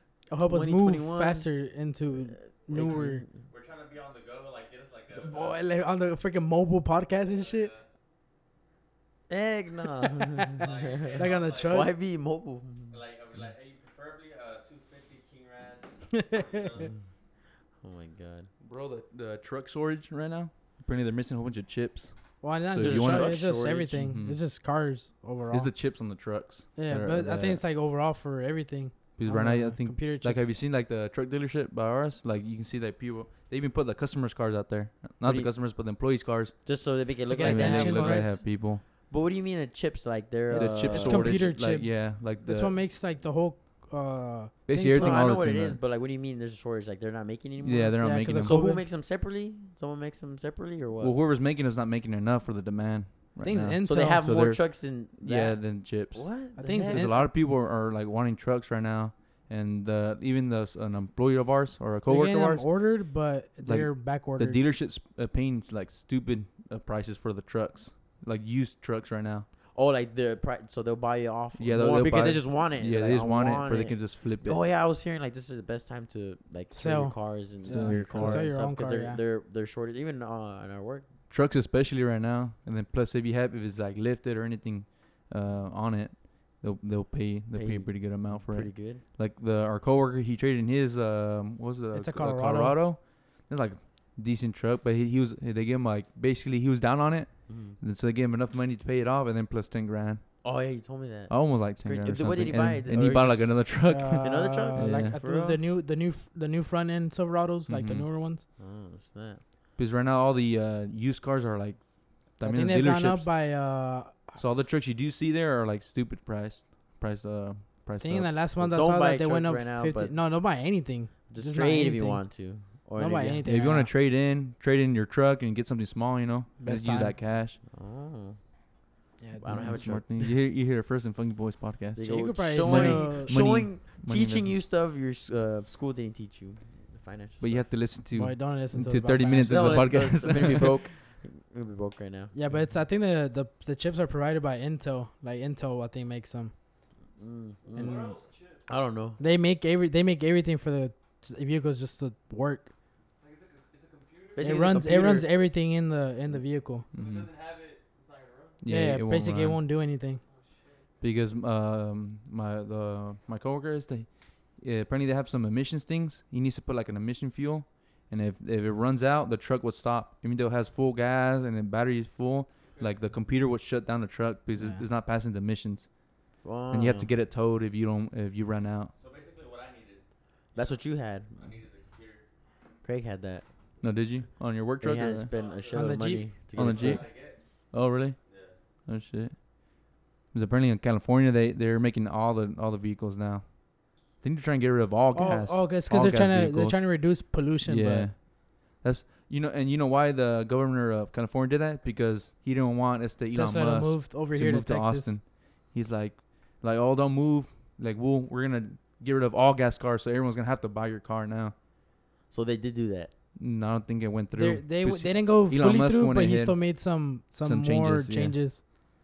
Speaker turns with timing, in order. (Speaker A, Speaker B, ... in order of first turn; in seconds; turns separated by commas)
Speaker A: 0.3-3.2, Speaker B: 0.4-1.5, Speaker B: 2.3-3.3, Speaker C: 3.5-5.6, Speaker A: 5.1-7.7, Speaker C: 7.2-7.8, Speaker B: 9.3-13.0, Speaker C: 10.5-11.9, Speaker A: 11.2-11.9, Speaker C: 12.9-17.0, Speaker A: 16.1-16.7, Speaker B: 17.8-18.5, Speaker D: 18.6-23.4, Speaker A: 22.4-25.7, Speaker B: 22.8-24.0, Speaker D: 23.9-24.4, Speaker D: 25.5-27.6, Speaker A: 26.8-30.6, Speaker D: 29.2-36.6, Speaker B: 35.2-35.5, Speaker B: 36.6-41.5, Speaker A: 37.2-38.3, Speaker D: 37.4-38.8, Speaker A: 40.5-45.2, Speaker D: 40.5-42.7, Speaker D: 44.7-45.8, Speaker B: 44.9-51.1, Speaker D: 47.6-48.6, Speaker A: 48.0-48.8, Speaker D: 51.0-63.0, Speaker A: 53.4-54.2, Speaker B: 53.8-57.2, Speaker A: 56.6-57.3, Speaker A: 62.0-64.6, Speaker D: 63.6-69.5, Speaker B: 69.7-81.1, Speaker D: 71.6-74.6, Speaker A: 76.7-79.2, Speaker D: 77.7-78.5, Speaker D: 81.3-100.2, Speaker B: 87.5-89.0, Speaker A: 91.9-92.8, Speaker B: 97.5-97.8, Speaker B: 100.4-105.6, Speaker D: 101.3-105.2, Speaker A: 103.8-108.4, Speaker D: 107.7-108.1, Speaker B: 108.6-109.4, Speaker D: 109.8-113.4, Speaker A: 112.4-114.4, Speaker D: 114.3-118.3, Speaker A: 118.0-122.3, Speaker B: 118.5-120.2, Speaker B: 121.3-123.5, Speaker A: 122.9-123.9, Speaker D: 123.5-127.6, Speaker A: 126.6-127.2, Speaker B: 127.7-128.4, Speaker A: 129.2-129.8, Speaker B: 129.4-130.3, Speaker D: 129.5-134.6, Speaker B: 131.9-137.7, Speaker A: 132.0-133.4, Speaker D: 137.4-140.8, Speaker A: 138.1-139.9, Speaker B: 139.4-142.7, Speaker A: 142.3-146.5, Speaker B: 147.2-148.1, Speaker E: 147.7-148.7, Speaker A: 147.8-148.2, Speaker B: 148.7-149.2, Speaker A: 149.2-152.7, Speaker E: 153.2-154.8, Speaker B: 154.3-155.3, Speaker A: 154.4-156.8, Speaker D: 156.9-157.3, Speaker E: 156.9-158.6, Speaker C: 157.0-157.3, Speaker D: 158.6-159.6, Speaker A: 158.7-160.2, Speaker E: 160.2-161.0, Speaker D: 161.0-178.9, Speaker C: 172.7-173.0, Speaker A: 174.6-174.8, Speaker B: 176.4-177.1, Speaker C: 178.9-180.8, Speaker B: 180.5-181.4, Speaker C: 181.3-182.2, Speaker B: 182.8-183.4, Speaker D: 183.8-185.3, Speaker B: 184.8-187.1, Speaker C: 185.3-187.4, Speaker A: 185.7-186.3, Speaker D: 186.5-188.2, Speaker C: 188.2-188.6, Speaker D: 188.8-211.5, Speaker A: 195.1-198.1, Speaker A: 203.3-205.2, Speaker B: 212.3-213.1, Speaker D: 213.3-216.7, Speaker A: 214.3-218.8, Speaker D: 217.4-218.4